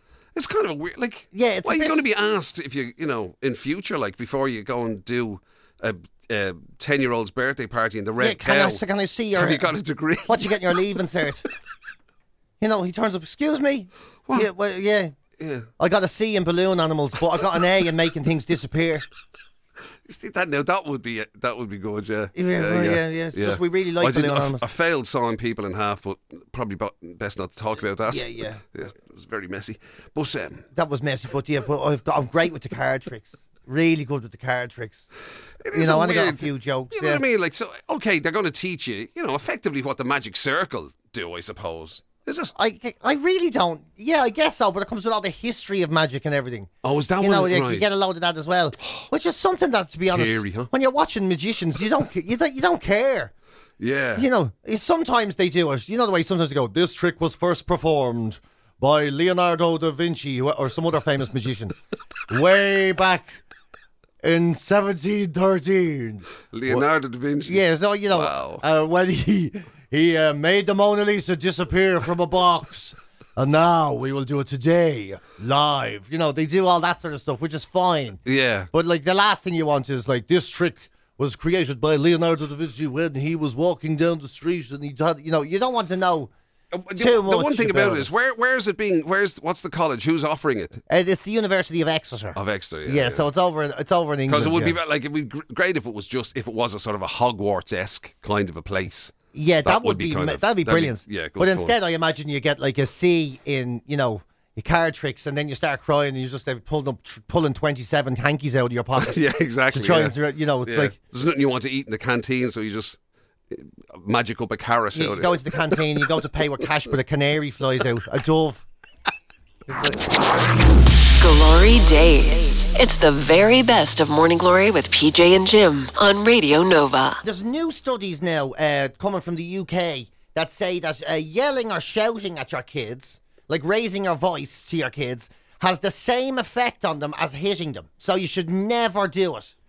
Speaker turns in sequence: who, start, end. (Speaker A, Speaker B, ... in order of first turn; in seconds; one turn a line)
Speaker A: 0.3-8.8
Speaker B: 1.3-2.0
Speaker B: 8.2-9.7
Speaker A: 9.3-10.6
Speaker B: 10.2-11.4
Speaker B: 12.6-15.1
Speaker A: 15.4-15.7
Speaker B: 15.8-19.0
Speaker A: 20.0-30.6
Speaker B: 22.3-24.6
Speaker B: 28.1-28.6
Speaker B: 30.7-35.1
Speaker A: 35.6-42.5
Speaker B: 35.7-37.2
Speaker B: 42.5-46.7
Speaker A: 46.8-47.9
Speaker B: 47.2-53.3
Speaker A: 50.1-50.7
Speaker A: 53.8-54.3
Speaker B: 54.1-61.7
Speaker B: 62.3-63.4
Speaker B: 64.2-66.8
Speaker A: 66.5-68.6
Speaker B: 67.4-86.3
Speaker A: 78.2-78.7
Speaker A: 86.7-90.8
Speaker B: 87.0-88.1
Speaker B: 90.9-94.8
Speaker A: 92.3-93.2
Speaker A: 94.3-101.7
Speaker B: 99.3-111.0
Speaker A: 109.0-113.0
Speaker A: 113.5-115.8
Speaker B: 114.9-118.6
Speaker B: 119.7-120.0
Speaker C: 121.2-127.2
Speaker B: 127.2-139.5